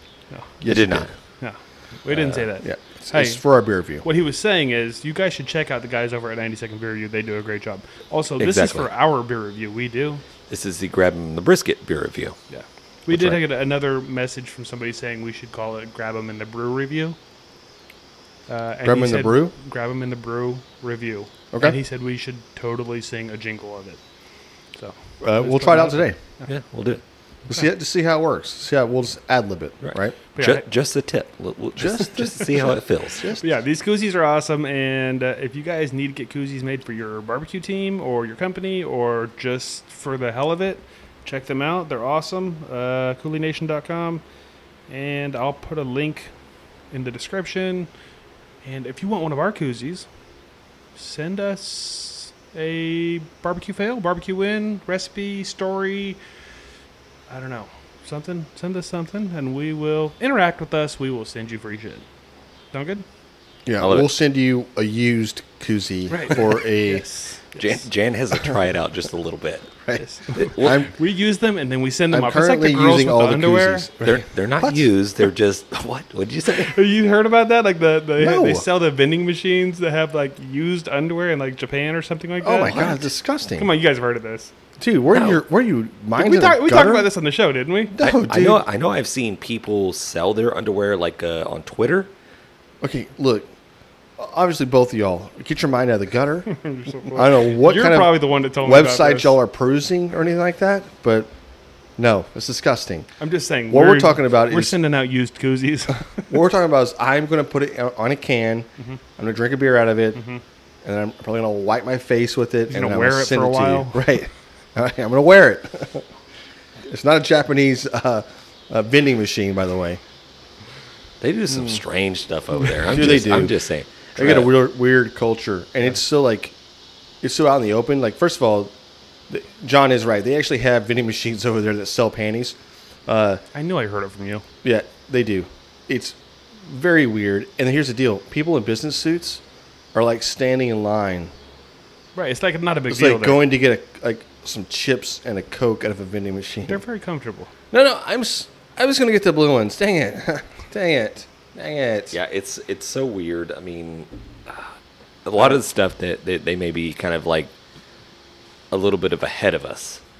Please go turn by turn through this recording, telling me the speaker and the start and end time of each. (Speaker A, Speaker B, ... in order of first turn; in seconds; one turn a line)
Speaker A: 0.6-1.1
Speaker B: 0.6-1.1
Speaker C: 1.4-3.4
Speaker B: 2.1-2.5
Speaker A: 2.6-4.0
Speaker C: 4.0-10.2
Speaker B: 8.4-8.9
Speaker B: 10.5-12.4
Speaker C: 12.5-17.2
Speaker B: 13.1-13.4
Speaker C: 18.5-24.0
Speaker A: 18.8-19.5
Speaker A: 21.5-21.8
Speaker C: 24.8-26.5
Speaker A: 25.2-26.2
Speaker B: 26.5-27.0
Speaker A: 27.5-30.2
Speaker B: 29.8-33.2
Speaker C: 30.3-30.6
Speaker A: 31.8-33.4
Speaker C: 33.4-44.2
Speaker C: 44.9-46.3
Speaker C: 46.9-47.9
Speaker C: 48.6-50.0
Speaker C: 51.0-56.2
Speaker C: 57.3-62.0
Speaker C: 62.7-63.0
Speaker A: 63.6-67.0
Speaker B: 63.8-64.1
Speaker C: 66.1-67.8
Speaker B: 67.5-69.8
Speaker A: 69.8-70.9
Speaker C: 70.0-73.9
Speaker B: 70.3-70.8
Speaker A: 72.1-74.9
Speaker B: 74.0-76.8
Speaker C: 76.6-83.0
Speaker A: 78.2-78.7
Speaker A: 82.4-83.7
Speaker C: 83.5-84.5
Speaker A: 84.8-87.1
Speaker B: 85.1-85.4
Speaker C: 86.1-88.0
Speaker A: 87.9-88.6
Speaker B: 88.0-92.1
Speaker A: 92.8-93.5
Speaker A: 94.2-96.5
Speaker C: 96.6-99.3
Speaker A: 97.0-101.3
Speaker A: 102.0-103.1
Speaker C: 103.2-106.3
Speaker A: 103.7-104.8
Speaker A: 106.3-110.2
Speaker C: 110.2-110.4
Speaker A: 110.8-116.0
Speaker C: 112.7-114.0
Speaker A: 116.9-120.0
Speaker B: 121.2-124.5
Speaker A: 122.9-123.6
Speaker A: 124.2-126.5
Speaker A: 127.2-128.7
Speaker A: 129.3-133.4
Speaker C: 133.5-134.4
Speaker A: 134.6-139.4
Speaker A: 139.9-141.3
Speaker C: 142.2-143.4
Speaker A: 142.9-146.8
Speaker C: 146.7-147.5
Speaker A: 147.7-152.2
Speaker B: 152.1-154.7
Speaker B: 155.2-157.5
Speaker B: 158.7-160.0